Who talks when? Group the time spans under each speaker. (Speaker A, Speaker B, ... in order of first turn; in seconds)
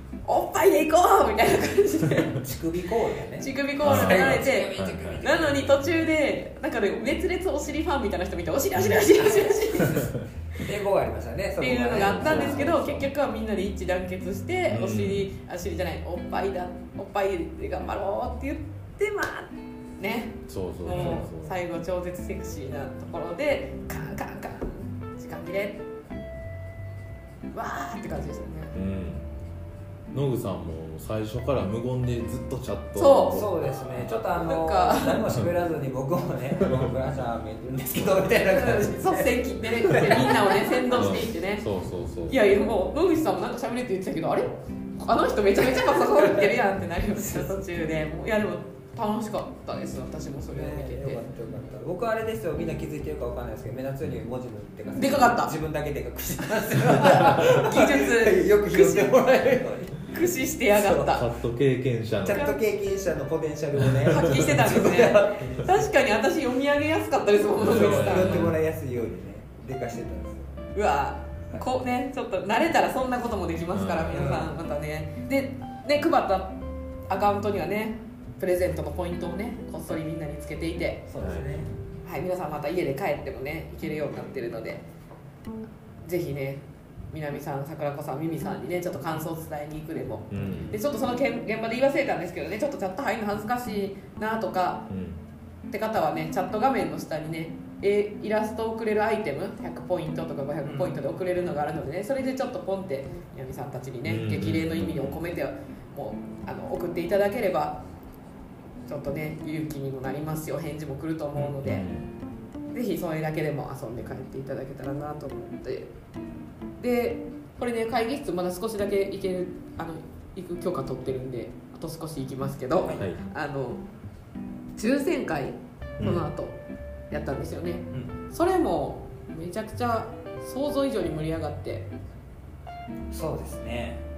Speaker A: 0.2-2.5, 3.4-10.1, 11.6-25.9, 27.5-28.8, 33.0-33.4, 34.5-35.2, 38.5-41.7, 42.3-51.2, 55.0-55.6, 56.6-59.2, 60.0-61.3, 62.3-62.6, 64.0-68.5, 70.7-81.0, 82.0-84.8, 86.0-94.9, 95.7-107.8, 108.9-111.9, 112.7-115.9, 116.8-123.8, 124.8-126.6, 127.1-131.9
Speaker B: 2.4-5.8, 9.2-12.8, 20.9-21.2, 33.3-40.9, 45.9-46.5, 47.2-47.5, 50.5-60.2, 60.7-61.2, 62.2-65.9, 67.6-70.7, 74.1-74.5, 81.1-81.7, 90.4-90.8, 100.6-101.0, 122.8-123.1, 133.1-134.0
Speaker C: 3.8-5.2, 11.9-13.1, 14.7-15.3, 20.5-21.6, 28.7-29.3, 30.1-34.4, 35.2-35.5, 36.6-36.9, 38.0-38.3, 39.9-40.2, 41.0-42.4, 61.1-62.5, 63.9-64.3, 67.6-68.6, 73.7-74.3, 81.2-81.7, 90.3-90.7, 94.9-95.2, 104.0-105.2, 111.4-112.1, 126.0-126.3